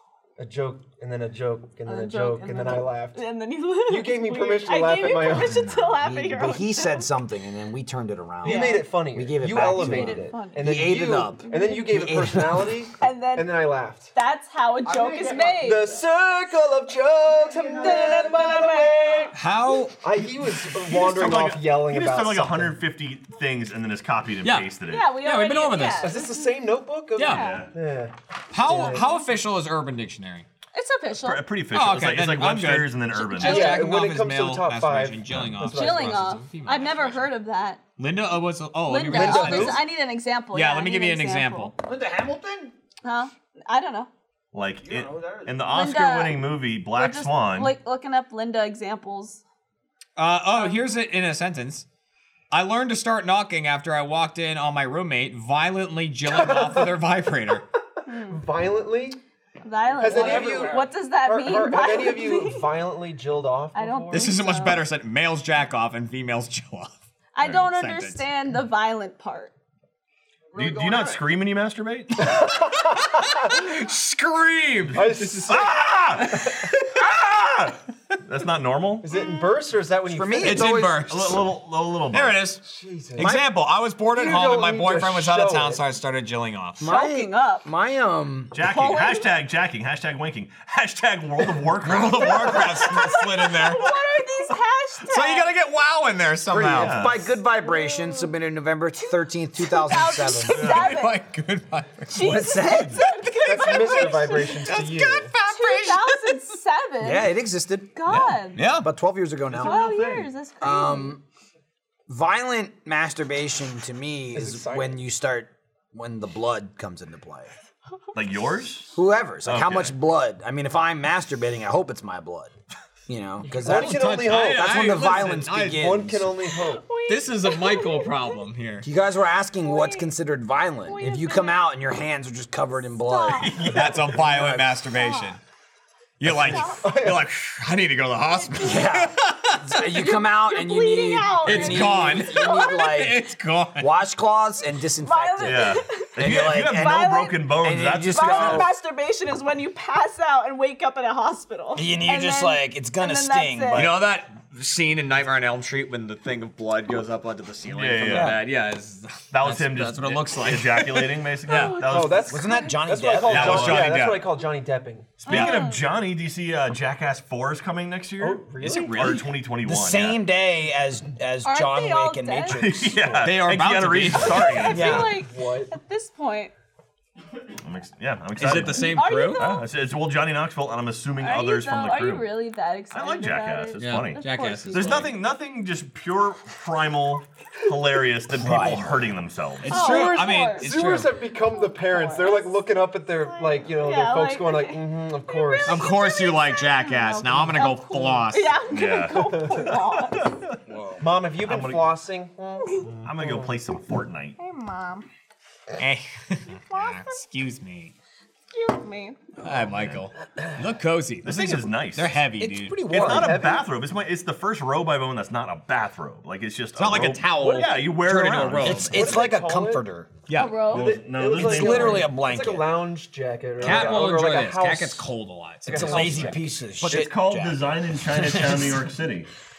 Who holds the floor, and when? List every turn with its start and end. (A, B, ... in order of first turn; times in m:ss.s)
0:00.4-0:03.2 A
0:01.8-0:07.1 B
0:03.9-0:05.9 A
0:06.0-0:12.8 C
0:08.4-0:14.1 A
0:08.4-0:08.8 B
0:09.6-0:12.1 B
0:13.0-0:15.9 B
0:14.8-0:19.4 A
0:17.7-0:19.3 B
0:19.3-0:20.0 D
0:20.0-0:22.8 A
0:20.9-0:25.2 E
0:24.4-0:26.2 D
0:24.9-0:27.7 B
0:26.0-0:29.1 A
0:27.2-0:27.4 D
0:27.3-0:27.7 E
0:28.5-0:30.5 D
0:30.7-0:31.5 B
0:31.1-0:33.8 E
0:31.7-0:37.2 D
0:33.3-0:33.8 B
0:33.4-0:36.3 A
0:35.3-0:35.6 E
0:35.7-0:37.8 B
0:38.0-0:39.9 D
0:38.8-0:41.7 B
0:39.1-0:39.8 A
0:40.5-0:41.8 D
0:41.8-0:42.7 C
0:43.0-0:44.1 B
0:44.5-0:47.7 E
0:44.8-0:45.6 C
0:45.7-0:49.4 B
0:50.2-0:51.8 D
0:52.5-0:57.6 D
0:56.3-0:56.9 A
0:58.0-0:58.4 B
0:58.3-0:59.2 A
0:59.6-1:02.7 B
1:00.0-1:04.3 A
1:00.0-1:00.8 C
1:03.7-1:04.8 B
1:04.1-1:08.3 D
1:07.3-1:09.5 B
1:10.5-1:12.3 E
1:12.2-1:13.6 A
1:12.3-1:12.6 D
1:13.4-1:17.0 D
1:14.9-1:16.7 A
1:15.5-1:16.2 C
1:15.7-1:16.2 E
1:18.2-1:19.1 E
1:19.0-1:20.8 A
1:19.1-1:19.5 B
1:20.1-1:21.4 C
1:20.4-1:21.4 D
1:20.6-1:22.5 E
1:22.1-1:22.6 D
1:22.6-1:23.3 A
1:23.2-1:26.9 D
1:23.2-1:23.5 C
1:24.1-1:25.8 A
1:26.8-1:28.6 C
1:26.8-1:27.6 B
1:28.5-1:32.8 E
1:28.6-1:29.3 B
1:31.8-1:33.9 D
1:32.4-1:35.5 B
1:35.0-1:37.0 D
1:36.5-1:40.7 C
1:36.7-1:37.2 E
1:37.6-1:38.3 B
1:39.0-1:41.2 B
1:40.5-1:42.2 D
1:40.6-1:40.9 E
1:42.1-1:44.6 B
1:42.2-1:43.0 C
1:43.0-1:46.4 D
1:43.4-1:45.3 A
1:45.4-1:47.4 B
1:47.0-1:49.9 C
1:47.9-1:48.6 B
1:48.1-1:48.9 D
1:49.6-1:51.2 B
1:50.6-1:51.2 C
1:52.1-1:57.5 C
1:54.3-1:54.9 A
1:58.1-1:58.9 E
1:58.9-2:02.5 C
1:59.4-1:59.9 E
2:03.1-2:06.4 C
2:03.4-2:06.8 A
2:03.6-2:06.0 D
2:06.6-2:08.4 B
2:07.1-2:08.9 D
2:08.8-2:14.4 C
2:09.6-2:10.1 B
2:10.8-2:11.7 B
2:13.0-2:13.8 B
2:13.4-2:15.4 D
2:14.1-2:14.5 A
2:14.9-2:15.4 B
2:16.2-2:20.0 D
2:16.3-2:16.9 B
2:16.8-2:17.3 A
2:18.4-2:19.0 B
2:18.6-2:23.2 C
2:19.8-2:23.0 B
2:21.4-2:24.0 D
2:23.8-2:27.0 C
2:25.0-2:27.6 B
2:25.4-2:28.7 E
2:27.6-2:28.7 C
2:28.1-2:34.0 B
2:31.7-2:34.0 C
2:33.7-2:41.8 D
2:37.7-2:38.4 E
2:38.1-2:38.4 C
2:39.3-2:42.3 E
2:41.4-2:42.8 B
2:41.9-2:45.2 A
2:42.3-2:43.9 C
2:43.3-2:44.2 D
2:43.3-2:44.0 E
2:45.2-2:50.2 E
2:45.2-2:45.8 B
2:48.2-2:49.2 A
2:48.6-2:49.3 D
2:49.6-2:53.2 C
2:51.4-2:52.6 B
2:52.5-2:55.1 E
2:53.2-2:54.5 D
2:54.3-2:56.5 B
2:54.7-2:55.7 A
2:54.7-2:55.2 C
2:57.6-3:02.3 E
2:58.4-2:59.5 D
2:58.6-2:59.7 B
3:01.2-3:05.2 B
3:02.9-3:09.7 E
3:03.8-3:05.1 D
3:08.4-3:08.8 D
3:08.4-3:09.0 C
3:09.6-3:11.1 D
3:09.7-3:12.6 B
3:09.7-3:15.9 A
3:13.2-3:20.3 B
3:15.6-3:18.6 D
3:18.7-3:20.6 E
3:19.1-3:19.6 A
3:20.7-3:21.0 C
3:21.0-3:23.6 A
3:21.4-3:21.9 E
3:23.0-3:24.4 E
3:24.4-3:25.1 B
3:25.8-3:27.9 D
3:26.5-3:27.2 B
3:28.5-3:29.2 B
3:29.4-3:32.8 D
3:31.2-3:32.2 E
3:32.4-3:33.4 C
3:32.9-3:39.2 E
3:32.9-3:33.7 A
3:36.8-3:39.0 D
3:38.6-3:40.1 C
3:38.9-3:39.8 A
3:40.3-3:40.7 D
3:40.3-3:41.0 B
3:40.7-3:45.0 A
3:40.7-3:42.1 E
3:41.3-3:42.7 C
3:43.6-3:47.1 D
3:43.6-3:44.1 C
3:45.6-3:46.5 A
3:45.7-3:48.8 C
3:46.8-3:49.3 E